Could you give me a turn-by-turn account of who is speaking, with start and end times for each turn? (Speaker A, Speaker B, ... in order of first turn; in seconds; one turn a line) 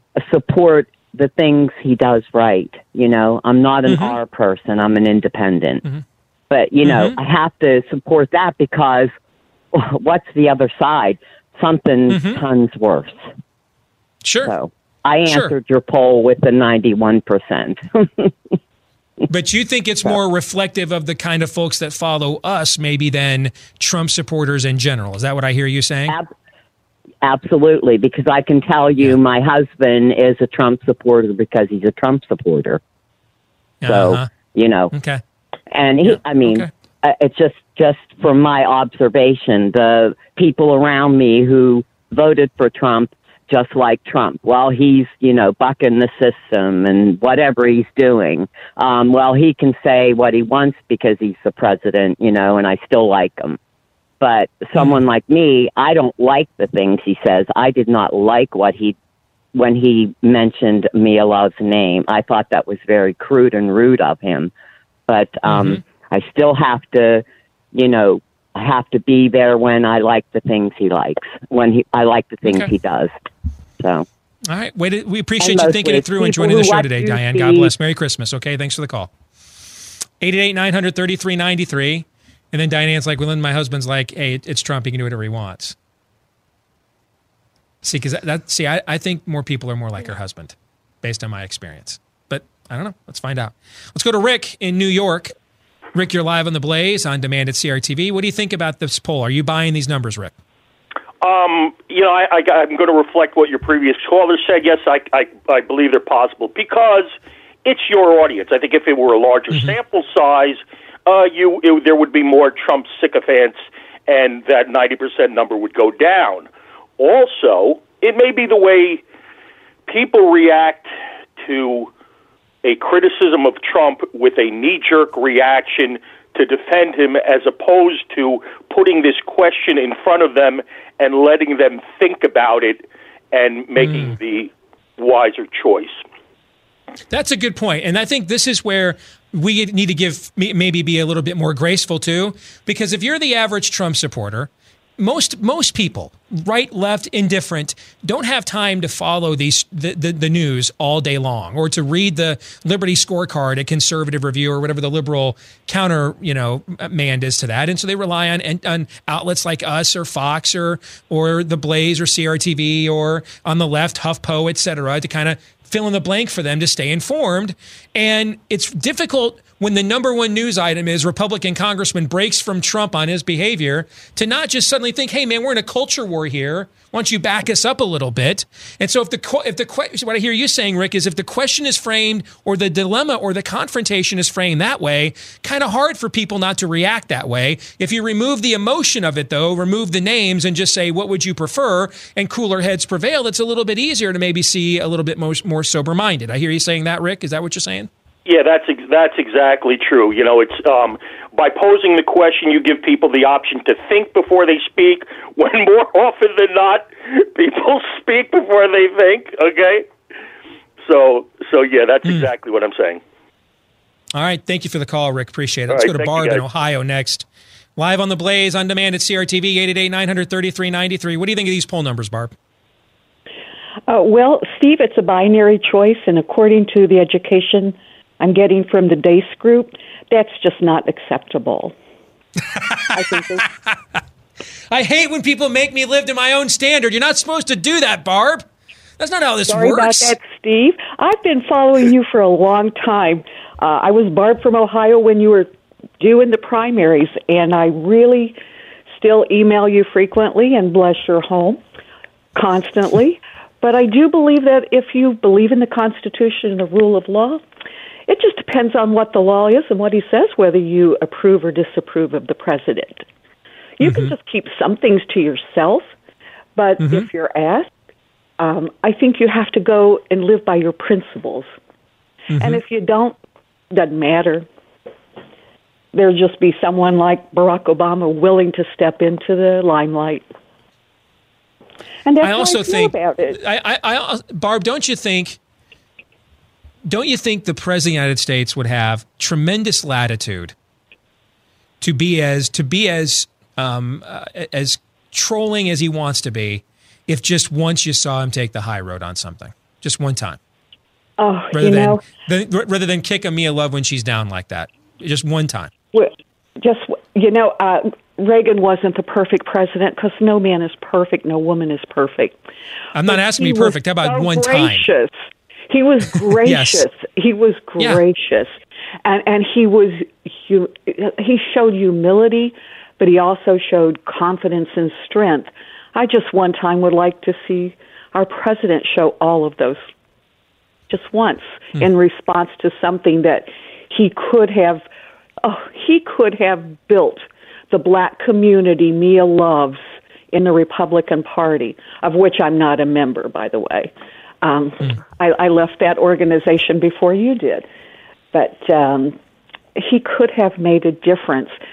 Speaker A: 0.2-5.8
Speaker B: 3.9-4.2
Speaker A: 6.5-9.1
Speaker B: 6.8-7.2
Speaker A: 9.7-13.2
Speaker B: 12.1-12.4
Speaker B: 14.2-14.5
Speaker A: 14.4-18.3
Speaker B: 15.3-15.5
Speaker B: 19.3-26.1
Speaker A: 27.2-32.8
Speaker B: 33.8-34.3
Speaker A: 33.8-34.9
Speaker B: 34.9-35.2
Speaker A: 35.7-53.6
Speaker B: 36.0-36.7
Speaker A: 54.2-59.0
Speaker A: 59.5-64.5
Speaker A: 65.1-73.1
Speaker B: 65.5-65.8
Speaker B: 72.4-72.7
Speaker A: 73.8-74.0
Speaker B: 74.5-79.1
Speaker A: 75.4-77.7
Speaker B: 80.2-85.8
Speaker B: 87.8-95.3
Speaker B: 95.9-100.3
Speaker C: 101.2-107.1
Speaker C: 107.6-119.0
Speaker B: 109.5-109.8
Speaker C: 119.9-121.9
Speaker C: 122.6-136.0
Speaker B: 133.8-134.2
Speaker B: 137.1-197.9
Speaker C: 198.2-209.9
Speaker C: 210.8-213.0
Speaker B: 214.1-217.2
Speaker C: 215.7-216.4
Speaker B: 217.8-222.3
Speaker D: 223.9-231.7
Speaker B: 232.5-233.8
Speaker D: 232.9-233.5
Speaker B: 234.7-238.4
Speaker B: 239.0-240.1
Speaker D: 239.5-248.4
Speaker D: 248.9-251.6
Speaker D: 252.3-257.4
Speaker D: 258.1-263.1
Speaker D: 263.8-265.9
Speaker B: 263.8-264.1
Speaker D: 266.6-267.7
Speaker B: 266.8-267.1
Speaker D: 268.4-271.5
Speaker B: 272.3-272.6
Speaker D: 272.3-273.1
Speaker D: 273.7-274.4
Speaker D: 275.9-280.3
Speaker D: 282.0-283.4
Speaker B: 282.2-285.4
Speaker B: 286.9-290.5
Speaker B: 291.8-300.4
Speaker D: 301.2-302.0
Speaker B: 301.5-305.7
Speaker D: 305.9-312.4
Speaker B: 312.9-314.9
Speaker D: 313.0-315.1
Speaker D: 315.7-318.5
Speaker B: 316.4-316.9
Speaker B: 317.8-318.0
Speaker D: 319.0-329.9
Speaker D: 330.9-334.8
Speaker D: 335.4-347.6
Speaker D: 348.3-349.1
Speaker D: 349.8-351.5